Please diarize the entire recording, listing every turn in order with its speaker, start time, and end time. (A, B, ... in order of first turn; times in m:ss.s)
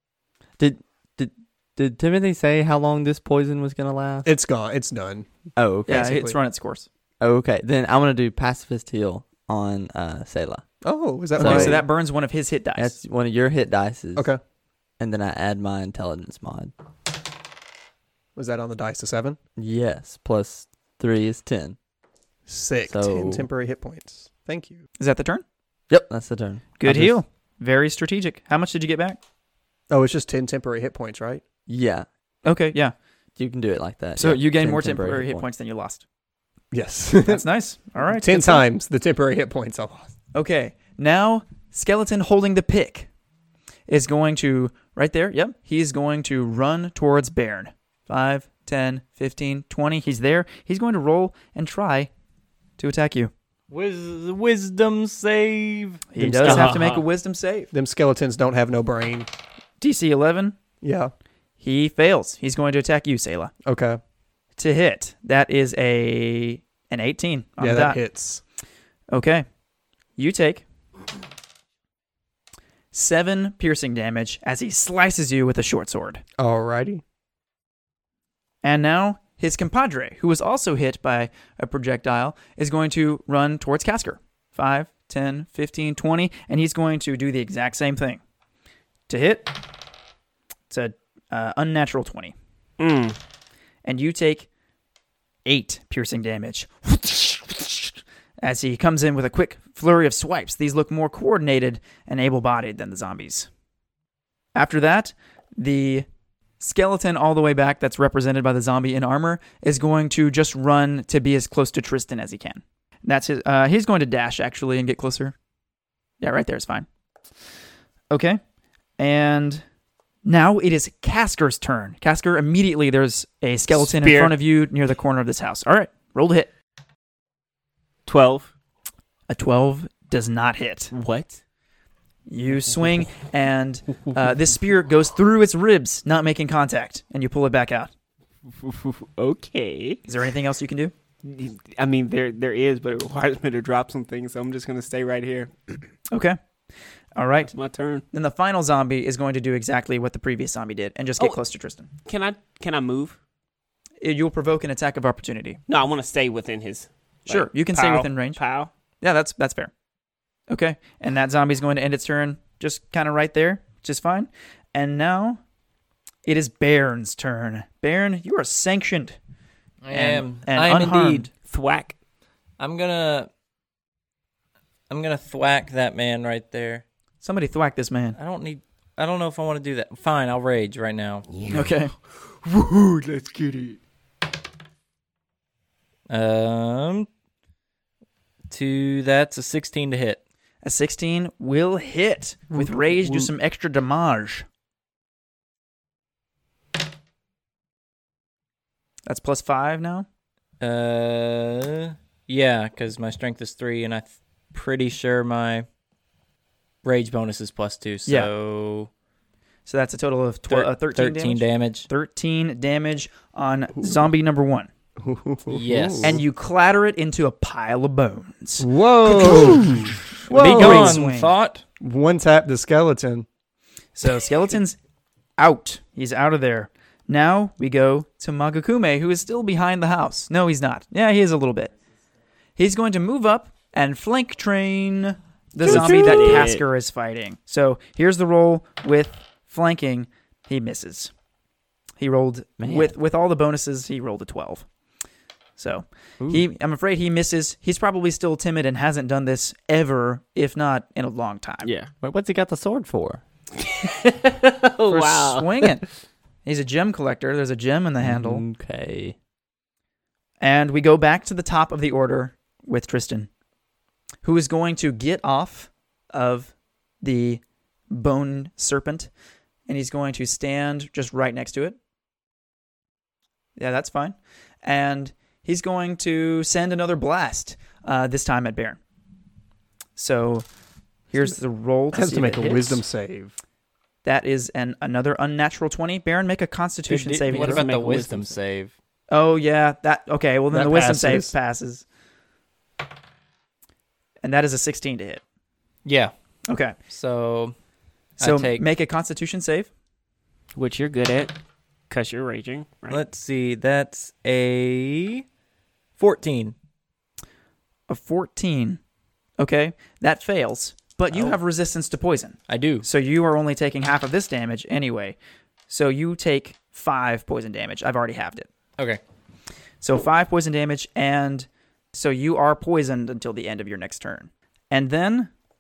0:00.6-0:04.3 A
0:04.2-0:05.3 B
0:05.6-0:06.1 A
0:05.9-0:06.4 B
0:05.9-0:06.9 C
0:07.2-0:10.6 A
0:10.8-0:11.8 B
0:11.4-0:11.8 A
0:11.4-0:13.0 C
0:12.8-0:14.3 A
0:15.0-0:16.7 A
0:18.4-0:19.4 B
0:19.6-0:21.8 A
0:22.5-0:24.8 B
0:22.9-0:23.5 A
0:25.0-0:25.4 C
0:25.9-0:27.2 A
0:26.8-0:29.2 C
0:29.9-0:31.4 B
0:31.7-0:32.1 A
0:32.4-0:32.9 C
0:33.4-0:35.4 A
0:34.2-0:36.0 C
0:36.7-0:37.4 B
0:37.3-0:38.6 C
0:38.0-0:40.1 B
0:40.3-0:43.1 C
0:43.9-0:52.1 C
0:52.8-0:53.3 C
0:53.7-0:56.8 D
0:56.1-0:57.7 C
0:56.2-0:56.7 B
0:56.4-0:57.0 E
0:57.7-0:59.3 B
0:59.8-1:00.6 C
1:00.8-1:01.1 B
1:01.6-1:03.5 C
1:03.6-1:04.0 B
1:04.6-1:08.0 C
1:07.6-1:08.4 B
1:09.1-1:09.4 C
1:10.2-1:10.6 C
1:12.9-1:16.2 C
1:16.4-1:17.0 B
1:18.6-1:28.2 C
1:29.1-1:29.6 C
1:30.7-1:32.3 C
1:32.8-1:33.2 E
1:33.8-1:34.5 C
1:35.4-1:43.5 C
1:44.6-1:46.1 C
1:46.6-1:55.3 C
1:56.2-1:56.9 C
1:58.1-1:58.4 C
1:59.0-1:59.6 C
2:00.2-2:06.5 C
2:03.7-2:04.4 E
2:08.1-2:08.5 E
2:09.3-2:10.9 C
2:10.9-2:11.4 E
2:12.3-2:17.9 C
2:18.6-2:20.0 E
2:20.1-2:20.9 C
2:21.2-2:25.8 E
2:26.1-2:26.4 C
2:27.2-2:27.5 C
2:27.5-2:28.0 E
2:28.1-2:31.9 C
2:32.0-2:33.2 E
2:34.0-2:35.6 C
2:35.7-2:38.7 E
2:37.3-2:38.4 C
2:39.0-2:39.7 C
2:40.5-2:45.4 C
2:46.3-2:49.2 C
2:49.8-2:51.3 D
2:49.9-2:51.3 C
2:51.4-2:52.0 E
2:52.6-2:53.3 D
2:54.9-2:56.8 D
2:57.2-2:58.2 C
2:58.2-3:01.3 D
3:01.5-3:01.9 C
3:02.5-3:03.8 B
3:06.1-3:07.1 D
3:08.5-3:10.2 D
3:10.6-3:14.4 C
3:19.1-3:20.1 C
3:20.6-3:25.7 D
3:26.8-3:28.9 D
3:28.1-3:28.3 C
3:29.7-3:34.7 C
3:30.5-3:31.9 D
3:35.0-3:36.2 B
3:35.5-3:36.2 D
3:36.0-3:39.6 C
3:38.6-3:41.0 B
3:40.2-3:41.3 C
3:40.3-3:41.6 D
3:41.8-3:43.3 B
3:44.0-3:44.8 C
3:45.4-3:51.7 C
3:52.6-4:01.1 C
3:55.6-3:56.6 E
4:02.0-4:04.7 C
4:02.6-4:02.9 A
4:05.6-4:11.7 C
4:11.6-4:11.9 E
4:12.0-4:13.2 A
4:13.6-4:15.7 E
4:14.9-4:15.9 C
4:16.4-4:18.4 C
4:18.0-4:19.2 A
4:20.4-4:23.3 C
4:24.2-4:29.1 C
4:29.7-4:31.8 C
4:33.6-4:38.8 C
4:40.0-4:40.4 C
4:41.1-4:42.8 C
4:41.9-4:43.4 B
4:44.0-4:47.6 C
4:46.9-4:48.7 D
4:47.3-4:48.4 E
4:49.1-4:51.8 C
4:50.5-4:51.3 B
4:54.2-4:55.2 C
4:55.8-4:56.1 D
4:56.5-4:56.8 C
4:56.9-4:57.6 D
4:58.2-4:58.6 D
4:58.2-4:59.7 C
5:00.6-5:01.4 E
5:01.9-5:03.0 E
5:02.9-5:05.2 D
5:06.0-5:06.6 D
5:07.9-5:08.8 C
5:09.4-5:15.2 C
5:12.5-5:12.9 D
5:15.7-5:18.5 C
5:19.8-5:25.3 C